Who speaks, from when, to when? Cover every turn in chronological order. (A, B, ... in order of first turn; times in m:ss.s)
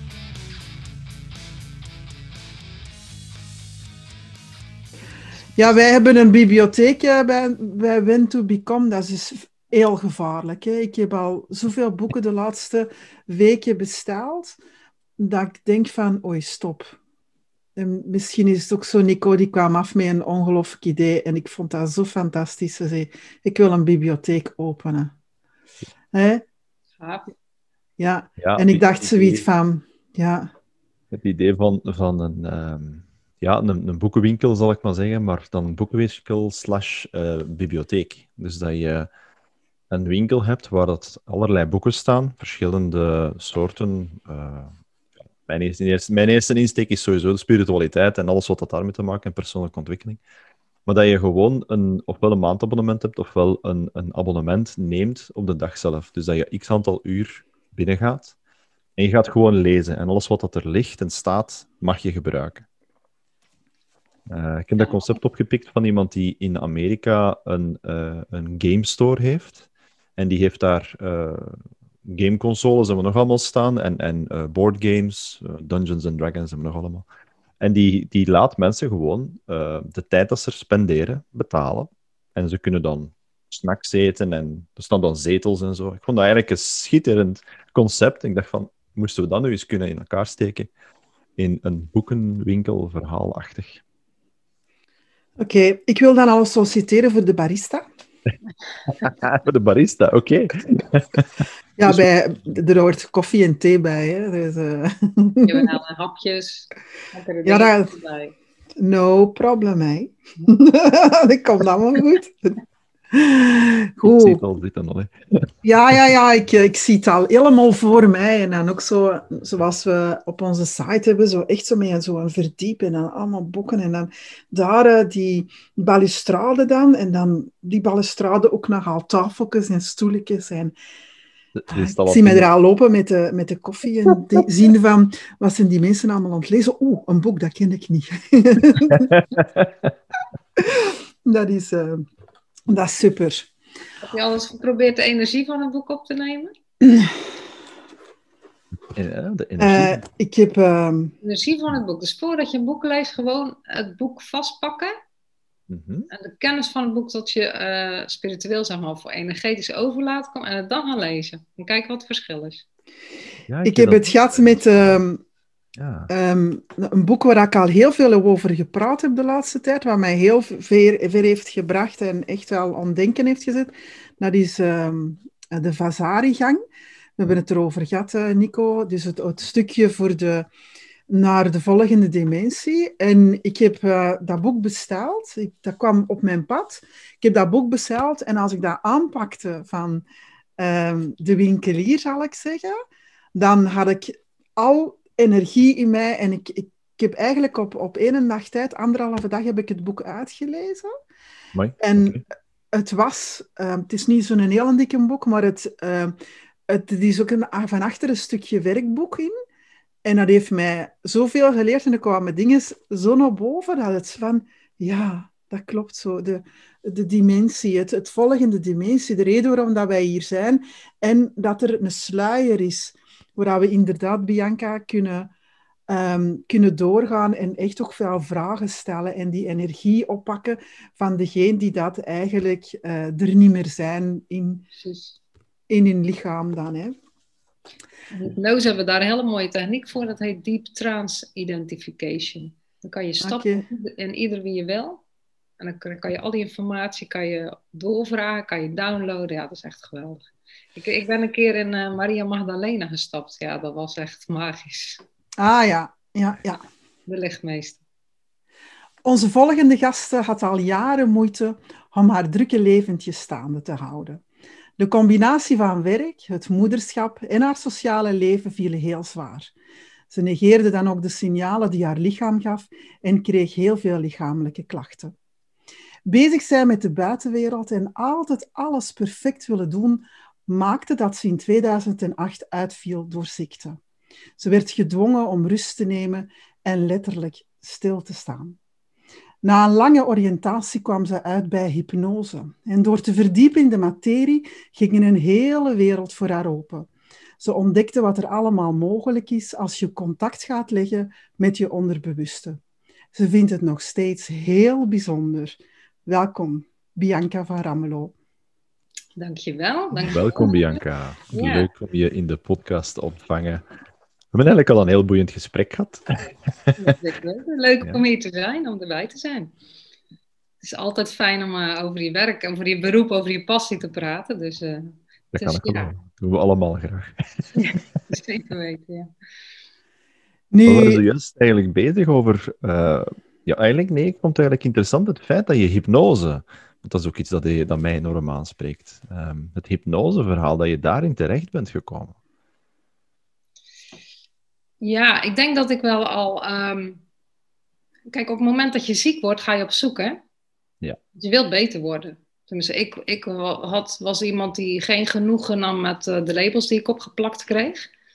0:05.6-0:14.6 A
0:15.2-0:17.0 A
0:17.8-0:25.1 A
0:26.1-0:26.4 A
0:27.0-0:27.3 B
0:28.0-0:30.5 A
0:28.4-0:29.4 C
0:31.1-0:39.1 C
0:39.9-0:44.7 C
0:45.4-0:50.2 C
0:50.9-0:58.3 C
0:59.0-1:02.6 C
1:04.3-1:09.6 C
1:04.8-1:05.1 B
1:10.2-1:17.0 C
1:17.6-1:30.7 C
1:31.4-1:33.8 C
1:35.4-1:37.8 A
1:38.9-1:41.2 C
1:41.8-1:45.7 A
1:45.4-1:48.3 B
1:47.4-1:47.9 A
1:48.8-1:52.6 A
1:53.1-1:54.4 A
1:54.0-1:55.5 C
1:55.6-2:10.7 A
2:11.5-2:12.5 C
2:11.7-2:19.1 A
2:18.9-2:19.7 C
2:20.6-2:22.0 A
2:22.7-2:23.5 A
2:24.0-2:26.5 B
2:26.8-2:27.1 A
2:28.9-2:30.0 C
2:29.6-2:31.1 A
2:31.2-2:34.9 B
2:35.7-2:36.1 C
2:36.1-2:42.6 B
2:43.5-2:45.0 C
2:43.6-2:45.2 A
2:45.8-2:46.1 C
2:46.1-2:56.6 A
2:57.2-3:00.5 A
3:01.1-3:10.0 A
3:10.6-3:12.8 A
3:13.3-3:20.9 A
3:21.5-3:22.2 C
3:21.8-3:26.1 A
3:26.7-3:29.3 A
3:30.0-3:45.3 A
3:45.9-3:54.6 A
3:54.8-3:55.2 B
3:55.7-3:57.0 A
3:58.1-4:05.0 B
4:03.2-4:03.6 A
4:05.6-4:10.2 B
4:10.8-4:15.0 B
4:15.4-4:16.6 A
4:17.1-4:17.8 B
4:19.0-4:24.2 A
4:24.8-4:29.5 A
4:30.1-4:35.1 A
4:36.0-4:43.8 A
4:44.4-4:48.6 A
4:49.4-4:56.9 A
4:57.4-5:02.6 A
5:03.1-5:08.1 A
5:09.2-5:10.8 B
5:10.0-5:13.6 C
5:11.3-5:11.7 B
5:14.3-5:16.3 C
5:16.8-5:19.5 B
5:20.6-5:25.9 B
5:25.3-5:27.1 C
5:27.6-5:29.1 B
5:30.5-5:31.0 A
5:30.6-5:42.1 C
5:44.8-5:47.0 B
5:48.1-5:50.2 B
5:51.1-5:57.9 B